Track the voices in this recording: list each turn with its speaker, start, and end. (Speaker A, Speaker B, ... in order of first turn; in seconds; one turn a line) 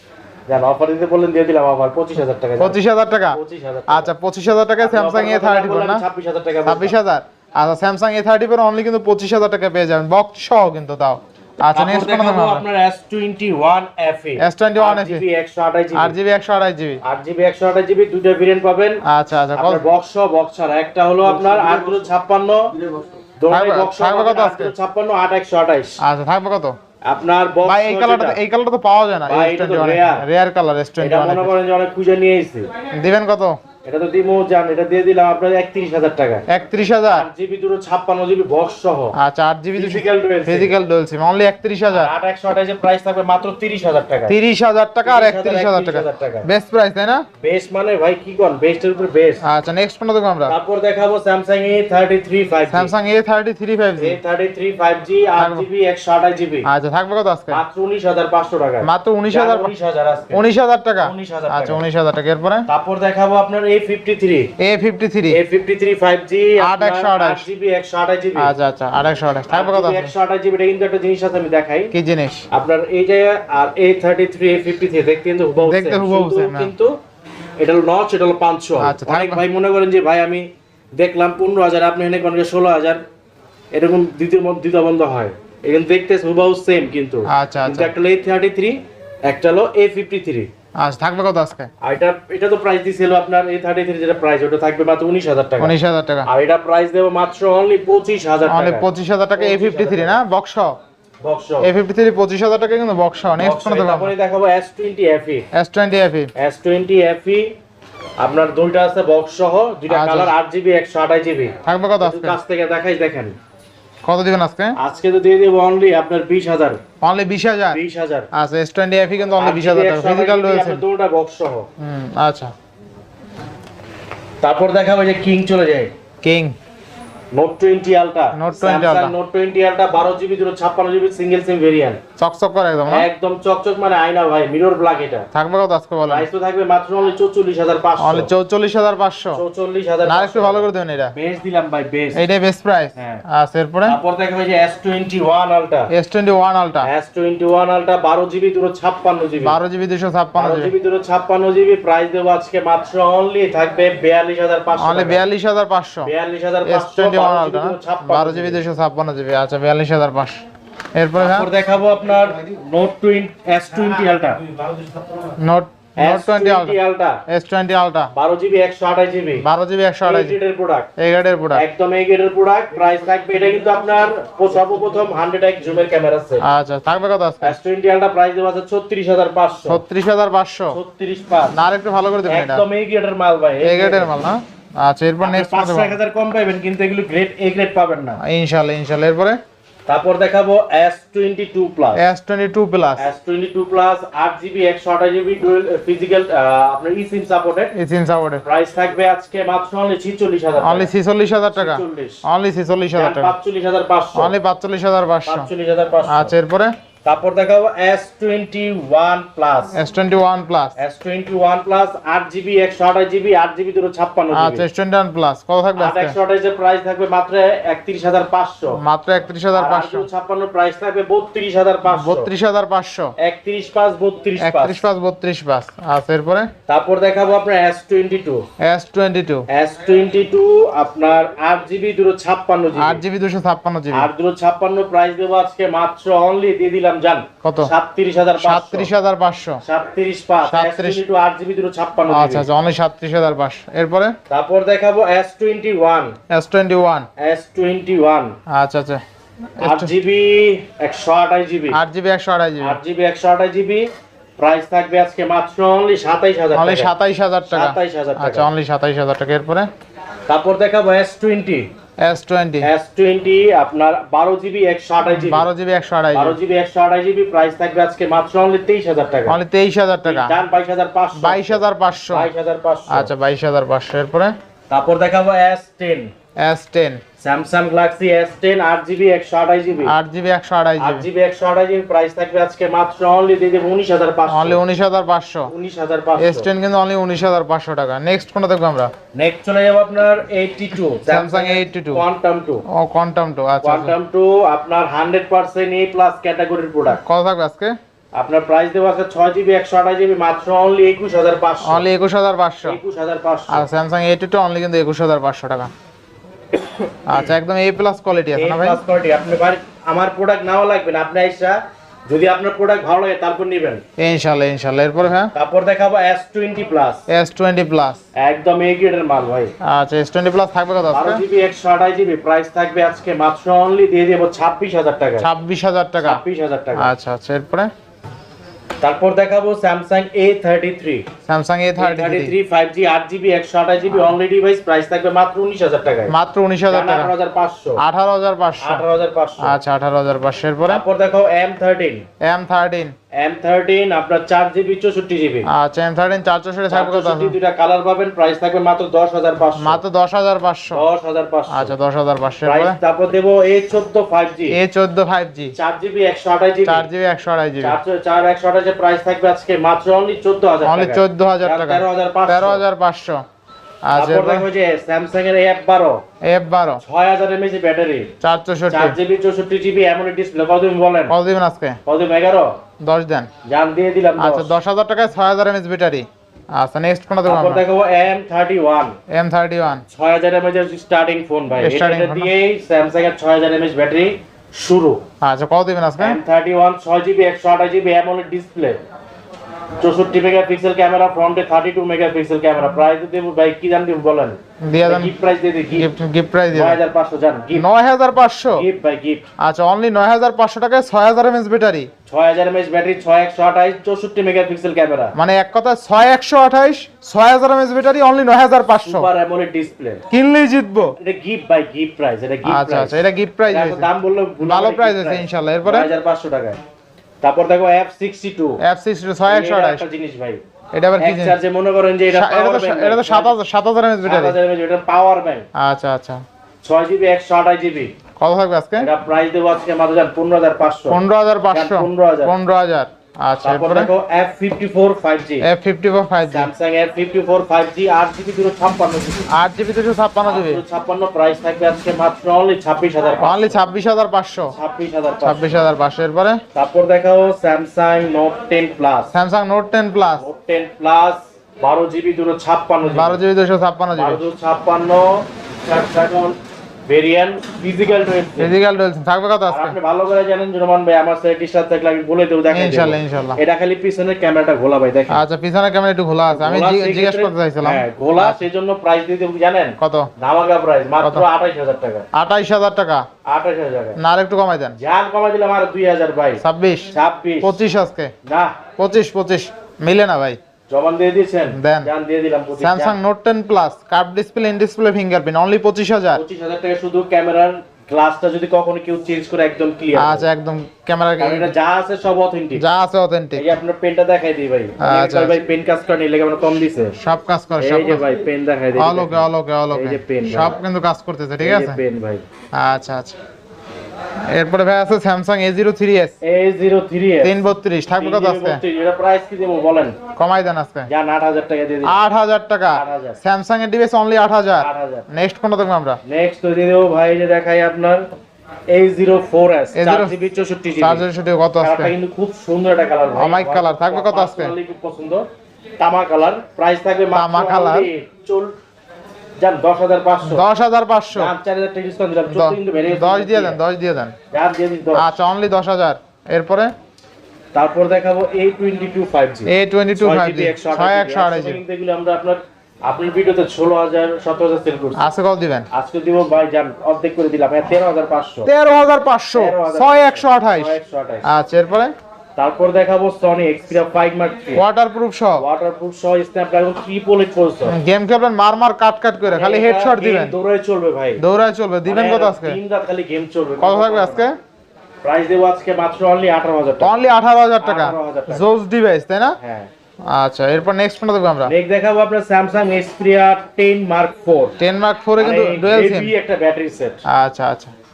Speaker A: 0.5-2.8
Speaker B: 2.6-6.0
Speaker A: 3.3-4.1
Speaker A: 4.8-6.9
Speaker B: 6.7-12.6
Speaker A: 11.7-16.1
Speaker B: 14.4-15.2
Speaker B: 15.9-17.0
Speaker A: 17.0-19.0
Speaker B: 19.0-19.8
Speaker A: 19.5-22.7
Speaker A: 23.4-26.0
Speaker B: 23.5-24.7
Speaker B: 26.0-26.8
Speaker A: 27.0-28.4
Speaker B: 27.6-31.5
Speaker A: 29.3-30.2
Speaker A: 31.0-32.7
Speaker B: 32.9-33.6
Speaker A: 33.8-36.5
Speaker B: 36.5-37.3
Speaker A: 37.1-39.2
Speaker B: 39.1-42.1
Speaker A: 39.7-40.7
Speaker A: 41.9-44.4
Speaker B: 44.3-47.2
Speaker A: 45.0-46.5
Speaker A: 47.4-49.4
Speaker B: 49.4-50.5
Speaker A: 50.5-52.9
Speaker B: 52.7-54.2
Speaker A: 54.0-56.7
Speaker B: 55.4-55.6
Speaker B: 56.6-57.6
Speaker A: 57.5-60.4
Speaker B: 58.8-59.7
Speaker B: 60.3-62.6
Speaker A: 61.0-61.8
Speaker A: 62.7-64.5
Speaker B: 64.6-65.4
Speaker A: 65.3-68.5
Speaker B: 66.6-67.5
Speaker B: 68.4-70.1
Speaker A: 69.5-71.9
Speaker B: 71.9-72.5
Speaker A: 72.5-76.9
Speaker B: 75.6-76.7
Speaker A: 77.6-83.0
Speaker B: 78.8-79.4
Speaker A: 83.7-90.5
Speaker B: 87.3-87.9
Speaker B: 90.8-91.7
Speaker A: 91.8-95.7
Speaker B: 95.6-96.3
Speaker A: 96.2-100.2
Speaker B: 98.5-100.8
Speaker A: 101.2-101.7
Speaker B: 101.6-104.1
Speaker A: 103.4-105.5
Speaker B: 105.5-106.3
Speaker A: 106.3-107.5
Speaker A: 108.2-113.3
Speaker B: 109.9-110.3
Speaker B: 111.6-112.4
Speaker B: 114.0-114.8
Speaker A: 114.8-116.8
Speaker B: 117.0-117.8
Speaker A: 117.7-118.3
Speaker B: 118.3-120.8
Speaker A: 119.4-121.7
Speaker B: 121.8-122.5
Speaker A: 124.4-125.9
Speaker B: 126.2-126.5
Speaker A: 127.3-132.0
Speaker B: 128.3-129.1
Speaker B: 132.2-133.1
Speaker A: 132.9-135.3
Speaker B: 135.3-136.3
Speaker A: 136.1-138.3
Speaker B: 138.0-139.4
Speaker A: 139.3-142.2
Speaker B: 140.1-141.1
Speaker B: 142.1-144.0
Speaker A: 142.9-143.2
Speaker A: 143.8-145.9
Speaker B: 145.9-146.9
Speaker A: 146.8-149.6
Speaker B: 149.4-150.7
Speaker A: 150.3-155.2
Speaker B: 154.8-156.1
Speaker A: 156.0-158.6
Speaker B: 156.6-160.4
Speaker B: 160.9-161.5
Speaker A: 161.2-164.4
Speaker B: 165.3-168.1
Speaker A: 166.0-167.2
Speaker A: 168.1-169.4
Speaker B: 169.4-170.3
Speaker A: 170.0-170.9
Speaker B: 171.0-171.6
Speaker A: 171.5-176.4
Speaker B: 176.4-177.6
Speaker A: 177.4-179.8
Speaker B: 179.7-180.8
Speaker A: 180.7-181.6
Speaker B: 181.5-182.6
Speaker A: 182.3-184.1
Speaker B: 183.6-185.9
Speaker A: 185.2-188.2
Speaker B: 188.2-189.4
Speaker A: 189.9-192.0
Speaker B: 191.9-193.0
Speaker A: 193.0-197.7
Speaker B: 197.7-198.4
Speaker A: 198.4-200.9
Speaker B: 200.6-203.3
Speaker A: 201.5-202.2
Speaker A: 202.9-204.3
Speaker B: 204.2-205.5
Speaker A: 205.3-206.3
Speaker B: 206.1-206.7
Speaker A: 207.0-209.7
Speaker B: 209.7-210.7
Speaker A: 210.8-214.7
Speaker B: 214.3-216.1
Speaker A: 215.8-218.8
Speaker B: 218.8-220.1
Speaker A: 219.5-222.3
Speaker B: 221.9-223.1
Speaker A: 223.2-224.8
Speaker B: 224.4-226.5
Speaker A: 226.7-228.4
Speaker B: 228.6-229.5
Speaker A: 229.5-233.0
Speaker B: 232.8-234.1
Speaker A: 233.9-238.9
Speaker B: 237.4-237.7
Speaker B: 238.4-239.6
Speaker A: 239.6-242.5
Speaker B: 240.4-241.0
Speaker B: 242.1-244.1
Speaker A: 244.3-246.2
Speaker B: 246.3-247.1
Speaker A: 247.2-248.4
Speaker B: 248.5-249.0
Speaker B: 249.6-249.9
Speaker A: 249.6-251.8
Speaker B: 251.7-252.8
Speaker A: 252.6-253.9
Speaker A: 254.4-256.9
Speaker B: 256.5-259.7
Speaker A: 257.5-258.5
Speaker A: 260.3-261.7
Speaker B: 262.0-262.7
Speaker A: 262.6-265.5
Speaker B: 265.1-266.4
Speaker A: 266.1-269.4
Speaker B: 269.3-270.4
Speaker A: 270.0-273.1
Speaker B: 271.1-272.3
Speaker B: 272.9-274.4
Speaker A: 274.7-276.1
Speaker B: 276.4-277.0
Speaker A: 277.2-279.9
Speaker B: 279.8-281.1
Speaker A: 280.8-284.6
Speaker B: 284.3-285.5
Speaker A: 285.5-286.5
Speaker B: 286.2-288.9
Speaker A: 289.1-292.6
Speaker B: 291.1-292.0
Speaker B: 292.7-293.9
Speaker A: 293.6-297.0
Speaker B: 297.0-297.8
Speaker A: 298.1-301.8
Speaker B: 301.6-302.8
Speaker A: 302.6-303.7
Speaker B: 303.5-305.7
Speaker B: 307.1-308.8
Speaker A: 308.4-313.8
Speaker B: 314.0-315.3
Speaker A: 315.3-317.0
Speaker B: 317.1-318.0
Speaker A: 318.1-319.5
Speaker B: 319.6-321.2
Speaker A: 320.9-325.3
Speaker B: 325.2-326.2
Speaker A: 326.0-326.9
Speaker B: 326.8-327.7
Speaker A: 328.8-331.1
Speaker B: 331.3-332.3
Speaker A: 331.8-336.1
Speaker B: 336.1-337.1
Speaker A: 336.7-337.8
Speaker B: 337.8-338.8
Speaker A: 338.6-339.6
Speaker B: 339.4-340.8
Speaker A: 340.7-342.1
Speaker B: 342.2-342.9
Speaker A: 343.1-345.5
Speaker B: 345.5-347.4
Speaker A: 346.7-349.8
Speaker B: 349.6-350.8
Speaker A: 350.7-351.7
Speaker B: 351.5-352.8
Speaker A: 352.4-354.6
Speaker B: 354.5-355.5
Speaker A: 355.6-356.9
Speaker B: 356.6-357.8
Speaker A: 357.6-362.6
Speaker B: 360.6-363.2
Speaker B: 363.9-364.4
Speaker A: 363.9-366.0
Speaker B: 366.2-366.8
Speaker A: 366.8-368.1
Speaker B: 368.2-368.9
Speaker A: 368.7-371.1
Speaker B: 371.1-371.8
Speaker A: 371.9-372.5
Speaker B: 372.8-373.3
Speaker A: 373.4-374.5
Speaker B: 374.2-377.6
Speaker A: 377.2-378.9
Speaker B: 379.1-379.8
Speaker A: 379.9-385.0
Speaker B: 381.6-382.3
Speaker B: 385.2-386.2
Speaker A: 386.0-388.8
Speaker A: 389.8-395.9
Speaker B: 394.6-395.1
Speaker B: 395.8-396.8
Speaker A: 396.5-397.6
Speaker B: 397.5-398.6
Speaker A: 398.5-399.2
Speaker B: 399.4-401.9
Speaker A: 402.1-405.1
Speaker B: 405.1-409.1
Speaker A: 408.8-410.0
Speaker B: 410.1-410.9
Speaker A: 411.0-412.9
Speaker B: 412.4-413.9
Speaker A: 413.5-416.6
Speaker B: 414.4-415.9
Speaker A: 417.2-418.6
Speaker B: 418.6-419.8
Speaker A: 419.3-420.4
Speaker B: 420.7-421.4
Speaker A: 421.0-423.3
Speaker B: 422.1-424.4
Speaker A: 424.0-425.4
Speaker B: 425.5-426.2
Speaker A: 426.6-427.9
Speaker B: 428.2-428.9
Speaker A: 428.8-431.0
Speaker B: 430.9-433.9
Speaker A: 431.5-432.3
Speaker A: 433.4-435.5
Speaker B: 435.4-436.5
Speaker A: 436.2-439.3
Speaker B: 439.3-440.6
Speaker A: 440.2-443.6
Speaker B: 443.2-444.5
Speaker A: 444.5-445.5
Speaker B: 445.2-446.4
Speaker A: 446.5-449.1
Speaker B: 449.1-450.2
Speaker A: 450.2-453.2
Speaker B: 452.9-454.2
Speaker A: 453.9-458.6
Speaker B: 458.4-459.8
Speaker A: 459.5-465.2
Speaker B: 462.5-463.4
Speaker B: 465.1-468.4
Speaker A: 466.3-472.1
Speaker B: 469.8-470.1
Speaker B: 471.0-471.2
Speaker B: 472.1-473.0
Speaker A: 473.2-474.0
Speaker B: 474.0-474.8
Speaker A: 474.8-477.5
Speaker B: 476.4-476.9
Speaker B: 477.4-478.1
Speaker A: 478.2-478.6
Speaker B: 478.8-480.4
Speaker A: 480.7-483.0
Speaker B: 481.5-481.9
Speaker B: 482.6-486.2
Speaker A: 486.1-490.3
Speaker B: 489.9-491.5
Speaker A: 491.2-492.6
Speaker B: 492.5-493.4
Speaker A: 493.4-496.9
Speaker B: 494.8-495.4
Speaker B: 497.0-498.0
Speaker A: 497.6-500.6
Speaker B: 498.8-501.8
Speaker A: 501.4-502.2
Speaker B: 502.5-503.2
Speaker B: 504.3-506.1
Speaker A: 506.2-510.0
Speaker B: 507.2-508.6
Speaker B: 510.1-510.9
Speaker A: 510.9-512.0
Speaker B: 511.8-516.0
Speaker A: 512.7-513.2
Speaker A: 514.6-515.0
Speaker A: 516.1-518.0
Speaker A: 518.7-521.1
Speaker B: 519.7-520.2
Speaker B: 520.8-521.9
Speaker A: 521.6-525.3
Speaker B: 523.2-524.5
Speaker A: 525.8-528.5
Speaker B: 527.1-527.9
Speaker A: 529.4-530.4
Speaker B: 530.2-531.3
Speaker A: 531.1-533.6
Speaker B: 532.3-534.1
Speaker A: 534.3-535.1
Speaker B: 534.9-536.7
Speaker A: 537.5-545.0
Speaker B: 539.5-541.6
Speaker B: 545.0-545.7
Speaker A: 545.7-548.5
Speaker B: 548.5-551.9
Speaker A: 549.3-551.3
Speaker A: 552.4-554.6
Speaker B: 554.5-555.4
Speaker A: 555.4-557.8
Speaker B: 557.7-560.4
Speaker A: 559.3-561.2
Speaker B: 561.2-562.6
Speaker A: 561.8-564.3
Speaker B: 563.6-564.4
Speaker A: 565.0-567.0
Speaker B: 566.8-569.4
Speaker A: 567.6-568.5
Speaker A: 569.4-569.7
Speaker B: 570.1-571.5
Speaker A: 571.4-574.5
Speaker B: 574.6-576.1
Speaker A: 575.2-577.0
Speaker B: 577.0-577.7